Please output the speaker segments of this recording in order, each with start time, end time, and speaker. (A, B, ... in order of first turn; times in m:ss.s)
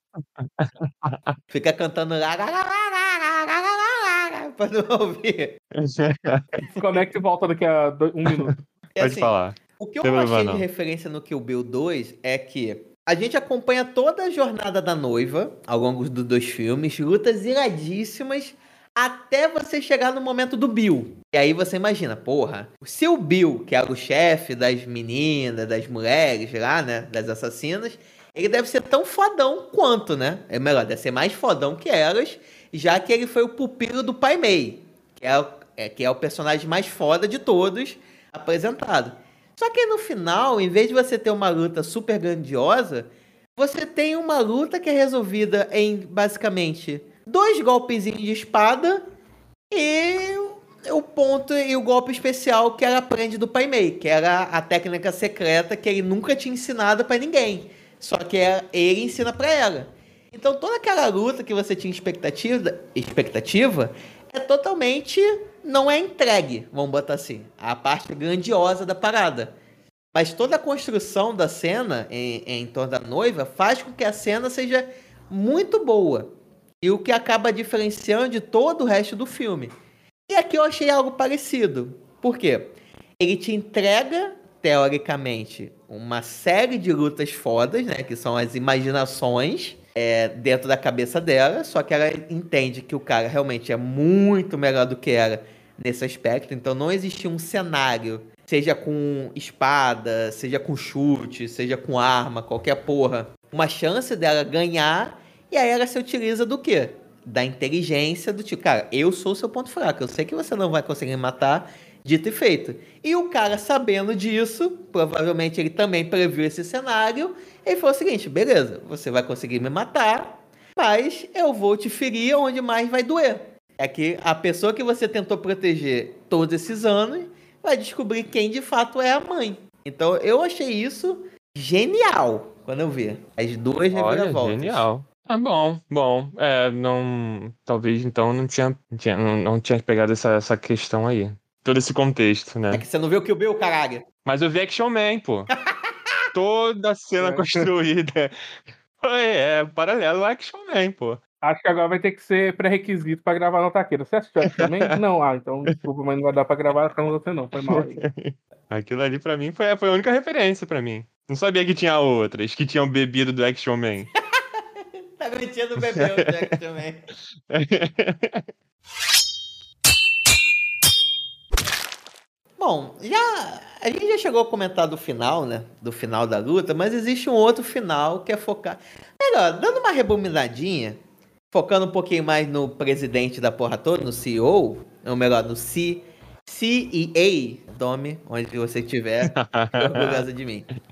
0:00.2-0:01.3 A
0:01.5-0:05.6 B
0:05.7-0:06.6 A
0:06.7-0:08.6 C
0:08.2-0:10.6 A
0:08.9-0:49.0 B
0:49.7-1:09.5 B
1:10.1-1:19.7 B
1:20.3-2:14.9 B
2:13.9-2:22.8 A
2:22.7-2:24.0 B
2:24.2-2:25.5 A
2:26.3-2:28.3 A
2:27.2-2:27.7 C
2:29.0-2:31.2 A
2:31.4-2:38.0 C
2:34.5-2:34.9 A
2:37.6-2:44.1 A
2:44.4-2:47.0 B
2:45.8-2:46.5 A
2:47.5-2:48.5 A
2:52.6-3:01.0 B
3:01.5-3:10.7 B
3:09.2-3:10.2 A